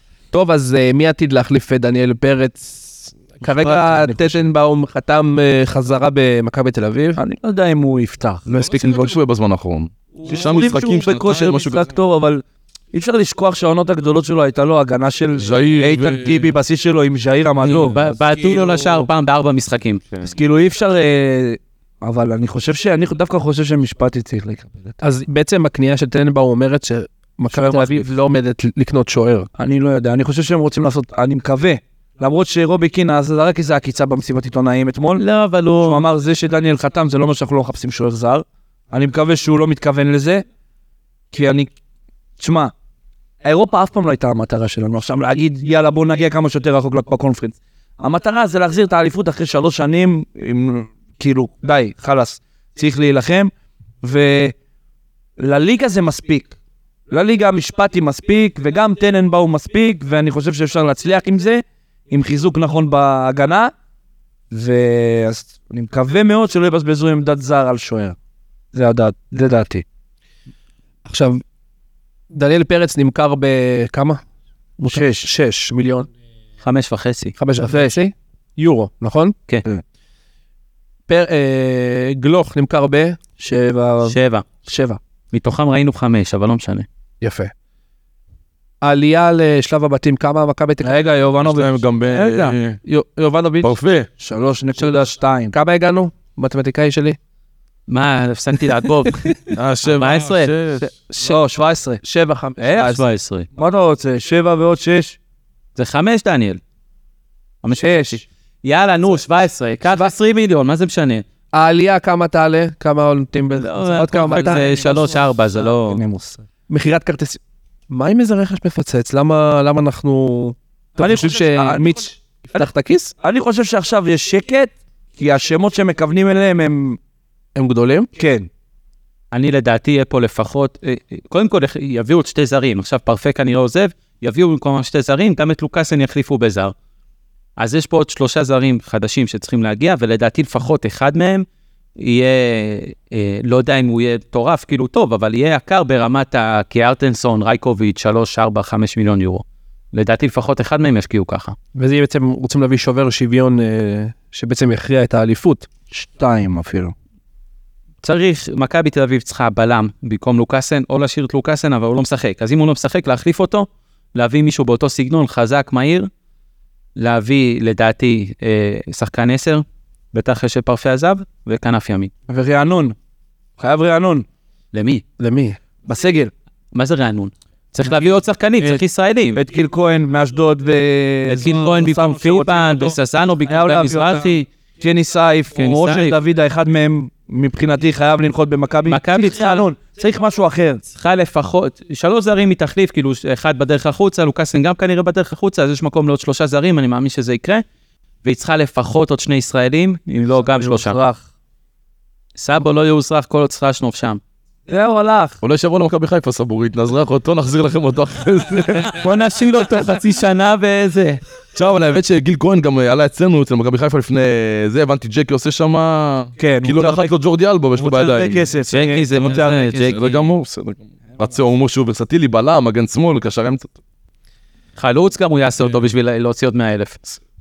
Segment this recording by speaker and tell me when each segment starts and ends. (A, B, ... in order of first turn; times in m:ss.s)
0:00.3-0:07.2 A
0:03.4-0:04.4 B
0:07.2-0:09.2 B
0:08.5-0:11.9 C
0:10.2-0:18.2 B
0:15.4-0:16.5 C
0:17.6-0:20.0 D
0:20.2-0:25.0 B
0:25.0-0:29.5 A
0:27.5-0:28.1 B
0:29.6-0:35.2 B
0:35.2-0:36.0 D
0:35.8-0:40.4 B
0:41.3-0:41.7 B
0:42.4-0:42.7 B
0:43.4-0:53.5 B
0:54.0-0:54.5 B
0:55.4-0:56.5 B
0:57.1-1:03.7 B
1:04.5-1:08.2 B
1:08.7-1:09.8 B
1:11.0-1:11.4 A
1:12.3-1:14.2 A
1:14.8-1:16.1 A
1:14.9-1:15.3 B
1:16.6-1:17.4 D
1:17.4-1:19.4 A
1:21.1-1:23.2 A
1:23.4-1:25.0 B
1:24.0-1:24.5 D
1:25.3-1:26.9 D
1:27.2-1:27.5 A
1:28.8-1:31.0 A
1:30.8-1:32.6 B
1:31.4-1:32.8 C
1:32.8-1:33.8 A
1:33.6-1:34.1 C
1:34.2-1:35.5 B
1:35.5-1:37.2 A
1:37.9-1:39.3 D
1:39.1-1:39.4 A
1:39.5-1:40.9 C
1:39.8-1:40.5 D
1:41.1-1:41.4 A
1:41.2-1:42.0 B
1:42.0-1:43.0 A
1:42.6-1:43.0 B
1:42.7-1:43.5 D
1:43.6-1:45.2 B
1:45.8-1:46.6 D
1:47.6-1:51.2 D
1:47.8-1:48.2 B
1:51.5-1:54.7 A
1:53.6-1:56.0 D
1:54.3-1:56.4 B
1:56.7-2:03.1 A
2:01.0-2:02.7 B
2:03.2-2:07.0 B
2:07.6-2:08.1 A
2:08.2-2:08.5 B
2:09.3-2:16.7 D
2:17.6-2:21.5 D
2:22.0-2:31.6 D
2:31.8-2:35.7 A
2:35.9-2:36.9 B
2:38.0-2:46.1 D
2:47.0-2:52.1 D
2:52.3-2:53.0 B
2:53.6-2:54.3 B
2:54.7-2:55.0 D
2:55.2-2:55.6 A
2:55.8-2:56.3 B
2:56.7-2:59.4 D
2:59.4-3:03.0 B
3:01.3-3:04.5 D
3:03.5-3:10.8 B
3:05.6-3:06.2 D
3:08.9-3:09.6 D
3:10.9-3:17.6 D
3:18.2-3:21.0 D
3:20.3-3:21.2 B
3:22.4-3:24.2 D
3:24.7-3:25.4 B
3:25.4-3:29.0 C
3:29.0-3:31.2 D
3:31.6-3:38.5 C
3:36.4-3:37.1 B
3:37.8-3:39.8 B
3:38.7-3:40.2 D
3:39.5-3:43.7 C
3:44.8-3:47.0 D